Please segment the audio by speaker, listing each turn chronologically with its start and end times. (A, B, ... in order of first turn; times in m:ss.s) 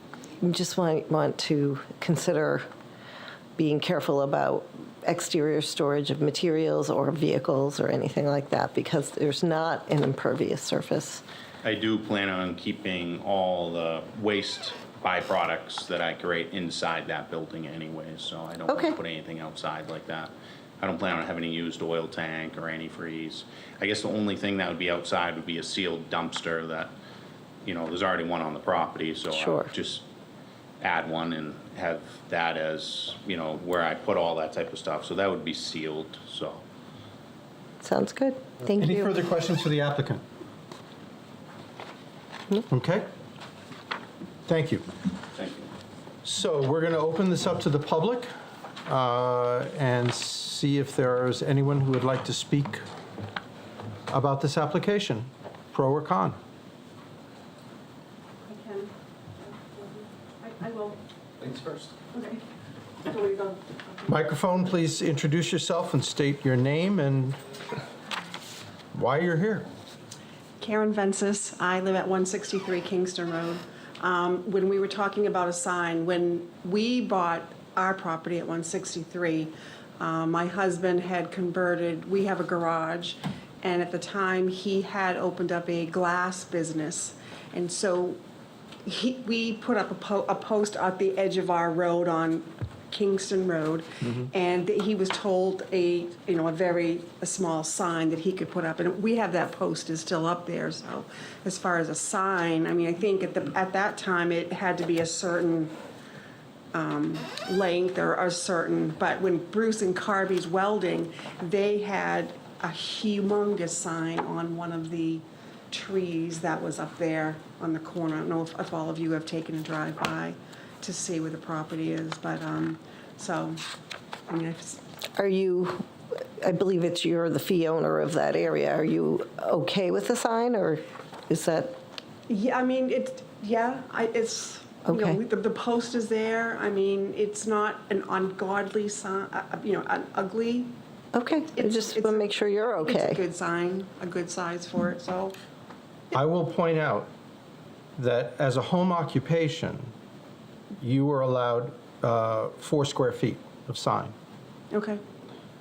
0:00.4-0:02.6 A
0:03.6-0:11.2 A
0:11.6-0:26.9 B
0:18.7-0:19.0 A
0:27.6-0:30.0 B
0:29.3-0:29.7 A
0:30.8-0:36.6 B
0:37.8-0:39.1 A
0:38.8-0:40.2 C
0:42.7-0:43.1 C
0:44.5-0:44.8 C
0:45.4-0:45.7 B
0:46.2-0:48.3 C
0:48.8-0:52.8 C
0:54.1-0:56.4 C
0:58.4-1:01.0 D
1:02.1-1:02.4 D
1:03.0-1:04.0 D
1:04.1-1:07.4 C
1:08.9-1:09.7 C
1:10.6-1:28.2 D
1:28.8-1:45.7 D
1:46.7-2:03.6 D
2:04.3-2:04.8 D
2:05.2-2:05.9 A
2:06.4-2:11.8 A
2:12.3-2:20.7 D
2:14.8-2:15.2 A
2:21.1-2:23.2 A
2:21.5-2:25.4 D
2:26.1-2:27.1 C
2:28.0-2:29.9 C
2:30.8-2:34.1 C
2:34.7-2:35.0 D